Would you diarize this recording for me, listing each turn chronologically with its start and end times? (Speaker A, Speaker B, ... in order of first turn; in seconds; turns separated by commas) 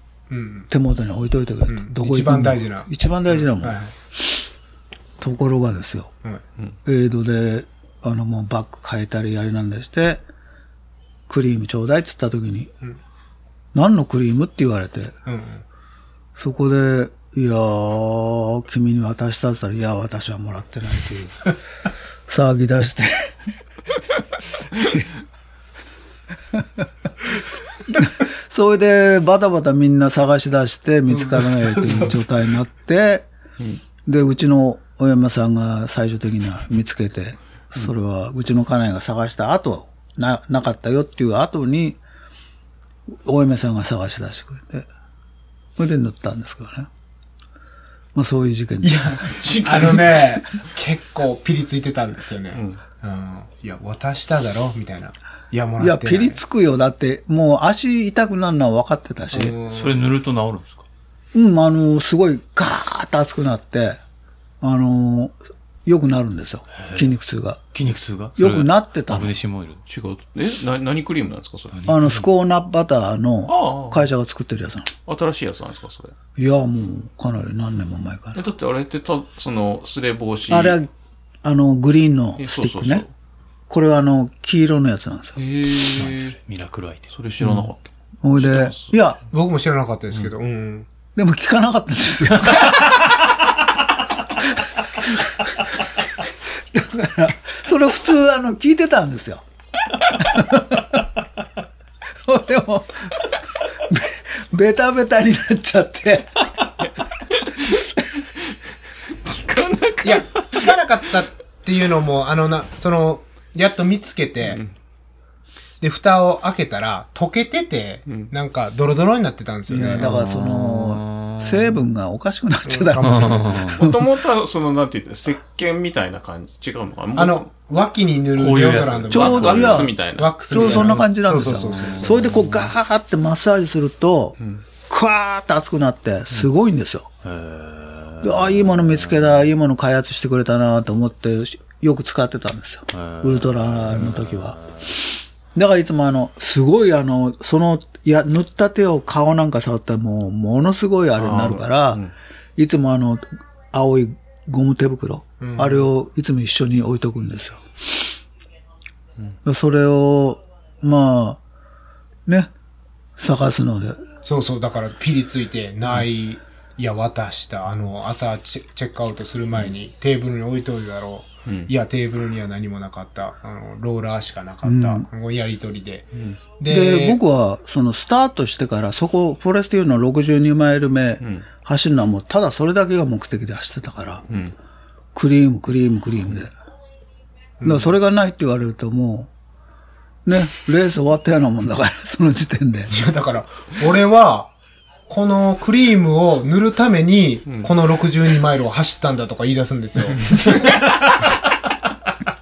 Speaker A: 0.3-0.7, Speaker B: 0.7-4.3, Speaker A: 1.7-3.9, Speaker B: 5.2-6.1, Speaker B: 6.8-10.2, Speaker B: 11.3-12.7, Speaker B: 13.7-15.2, Speaker A: 15.3-15.6, Speaker B: 16.4-21.6, Speaker B: 22.3-23.4, Speaker B: 26.5-26.9, Speaker B: 27.9-33.3, Speaker A: 31.1-32.3, Speaker B: 34.1-42.0, Speaker B: 43.2-44.9, Speaker B: 45.8-46.9, Speaker B: 48.1-49.3, Speaker A: 48.8-56.4, Speaker C: 49.3-50.4, Speaker C: 52.5-52.8, Speaker B: 55.8-59.6, Speaker A: 59.3-60.0, Speaker D: 59.7-60.9, Speaker B: 61.3-64.0, Speaker B: 64.6-67.7, Speaker D: 66.8-67.1, Speaker D: 67.7-69.8, Speaker B: 68.4-69.3, Speaker C: 69.9-71.9, Speaker D: 71.7-72.3, Speaker B: 71.9-74.9, Speaker C: 73.5-74.1, Speaker C: 75.1-76.2, Speaker B: 76.4-78.4, Speaker C: 78.3-80.8, Speaker B: 80.5-80.9, Speaker B: 81.4-83.0, Speaker C: 82.4-83.1, Speaker B: 83.7-85.4, Speaker C: 85.4-86.4, Speaker D: 86.0-87.1, Speaker C: 87.1-89.0, Speaker B: 87.4-87.7, Speaker B: 88.2-89.2, Speaker A: 89.3-90.9, Speaker B: 91.2-92.9, Speaker B: 95.0-95.5, Speaker B: 96.7-99.4, Speaker B: 100.2-101.1, Speaker B: 102.2-106.5, Speaker C: 106.8-107.8, Speaker C: 109.2-110.8, Speaker A: 110.0-114.6, Speaker C: 114.4-114.7, Speaker A: 115.8-120.1, Speaker C: 118.1-118.3, Speaker B: 119.7-124.0, Speaker D: 120.0-121.8, Speaker A: 122.7-123.7, Speaker D: 123.0-123.8, Speaker C: 123.7-127.5, Speaker A: 127.2-132.2, Speaker D: 128.4-129.5, Speaker C: 129.1-130.9, Speaker B: 129.1-130.0, Speaker B: 130.5-137.1, Speaker D: 131.6-132.7, Speaker C: 134.4-134.6, Speaker D: 137.2-139.4, Speaker B: 138.2-144.6, Speaker D: 142.9-144.9, Speaker B: 145.6-152.0, Speaker C: 151.2-152.1, Speaker B: 152.6-157.7, Speaker A: 155.4-155.9, Speaker B: 159.4-161.4, Speaker B: 163.2-164.1, Speaker A: 164.2-177.2, Speaker C: 171.4-171.7, Speaker B: 174.6-175.1, Speaker C: 176.1-176.4, Speaker B: 176.7-184.2, Speaker C: 181.2-181.5, Speaker C: 184.3-184.6, Speaker B: 185.2-186.5, Speaker A: 187.6-187.9, Speaker B: 187.6-189.3, Speaker B: 190.3-192.9, Speaker A: 192.9-194.5, Speaker A: 195.1-201.1, Speaker C: 200.2-200.8